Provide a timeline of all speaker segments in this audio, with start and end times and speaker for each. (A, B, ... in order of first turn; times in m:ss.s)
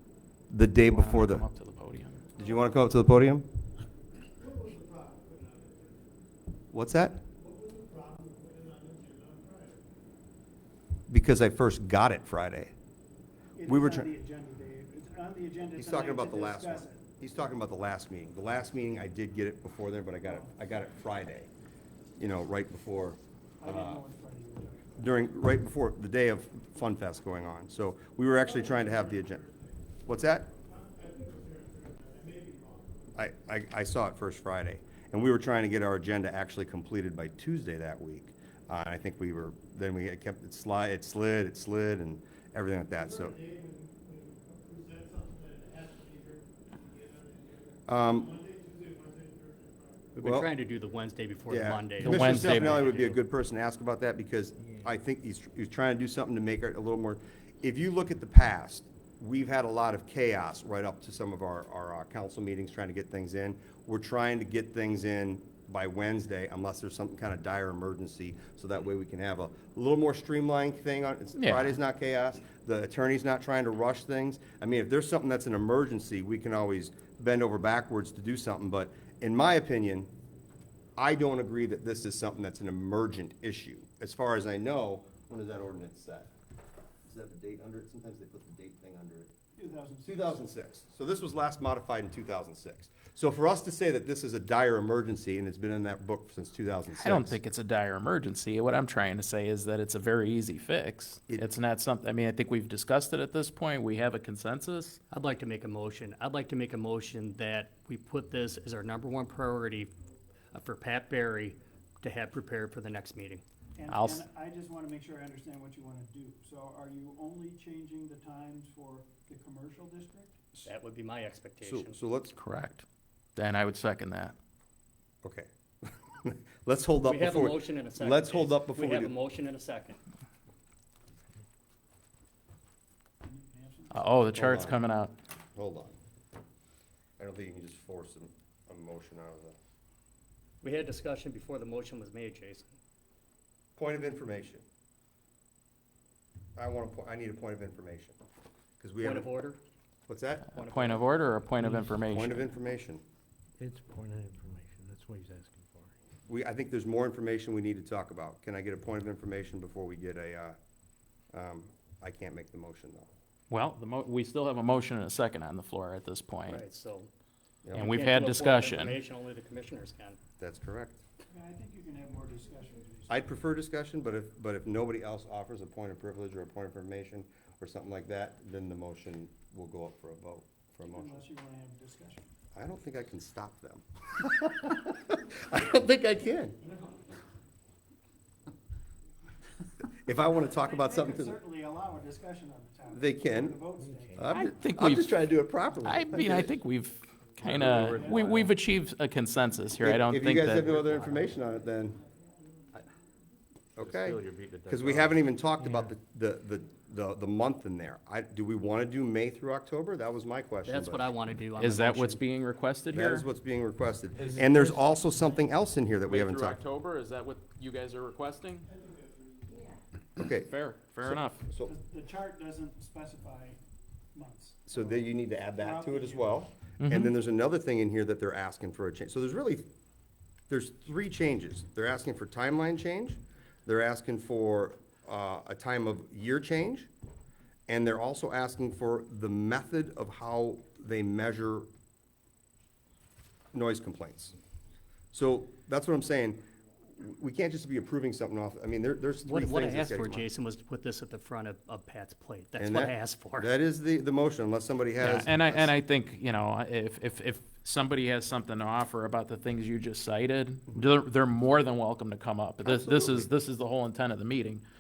0:00.5-0:01.4 A
0:00.8-0:02.3 B
0:02.4-0:03.5 A
0:04.4-0:06.0 C
0:06.7-0:07.2 A
0:07.4-0:09.8 C
0:11.1-0:12.7 A
0:13.6-0:17.0 D
0:13.7-0:14.1 A
0:15.7-0:21.5 A
0:20.2-0:20.5 D
0:22.2-0:24.0 A
0:23.6-0:25.2 D
0:25.0-0:29.4 A
0:28.6-0:29.7 C
0:30.1-0:30.5 A
0:30.5-0:33.0 C
0:33.2-0:43.4 A
0:43.2-0:50.1 C
0:47.9-0:48.4 A
0:50.2-0:53.2 E
0:50.2-0:50.5 A
0:51.5-1:20.1 A
0:52.0-0:53.2 B
1:11.4-1:11.8 B
1:21.0-1:26.3 A
1:27.1-1:29.3 A
1:29.6-1:30.4 D
1:30.0-1:37.4 A
1:36.9-1:45.0 B
1:45.1-1:49.9 E
1:50.5-1:53.4 E
1:53.8-2:00.4 D
1:53.9-1:54.3 B
2:00.7-2:02.0 E
2:01.6-2:02.4 A
2:02.4-2:02.8 B
2:03.4-2:04.4 B
2:05.2-2:09.2 A
2:07.0-2:10.0 E
2:13.2-2:14.3 D
2:13.9-2:15.1 B
2:14.3-2:14.8 A
2:15.6-2:16.0 A
2:17.2-2:19.6 A
2:20.6-2:22.8 E
2:23.8-2:24.6 A
2:26.6-2:28.2 A
2:28.8-2:29.3 A
2:29.0-2:29.6 E
2:30.1-2:30.5 A
2:30.5-2:32.5 B
2:30.5-2:31.0 E
2:32.1-2:33.0 A
2:33.6-2:35.9 C
2:36.3-2:40.6 A
2:41.3-2:43.1 A
2:43.5-2:46.6 B
2:46.5-2:47.1 E
2:47.6-2:47.9 A
2:47.7-2:49.0 B
2:47.8-2:50.2 E
2:50.4-2:51.0 A
2:51.3-2:53.3 D
2:53.1-3:01.3 A
3:00.9-3:02.3 D
3:02.6-3:06.6 A
3:10.0-3:11.4 A
3:10.5-3:14.4 D
3:12.9-3:13.6 A
3:13.8-3:14.2 C
3:14.2-3:16.5 A
3:14.2-3:15.2 B
3:15.8-3:20.8 B
3:17.7-3:18.4 D
3:19.8-3:22.0 A
3:23.8-3:31.1 A
3:25.6-3:25.9 C
3:30.7-3:32.2 E
3:31.6-3:33.3 B
3:32.9-3:36.6 A
3:34.2-3:34.9 B
3:36.1-3:38.7 B
3:40.2-3:41.7 A
3:40.5-3:41.5 B
3:41.6-3:43.6 D
3:44.1-3:46.4 D
3:44.7-3:49.6 A
3:46.8-3:47.1 B
3:50.5-3:56.9 A
3:57.7-4:01.7 A
4:03.5-4:04.3 A
4:05.1-4:06.4 A
4:06.9-4:10.3 A
4:09.2-4:13.5 E
4:12.6-4:15.7 A
4:15.0-4:24.6 B
4:22.6-4:23.3 A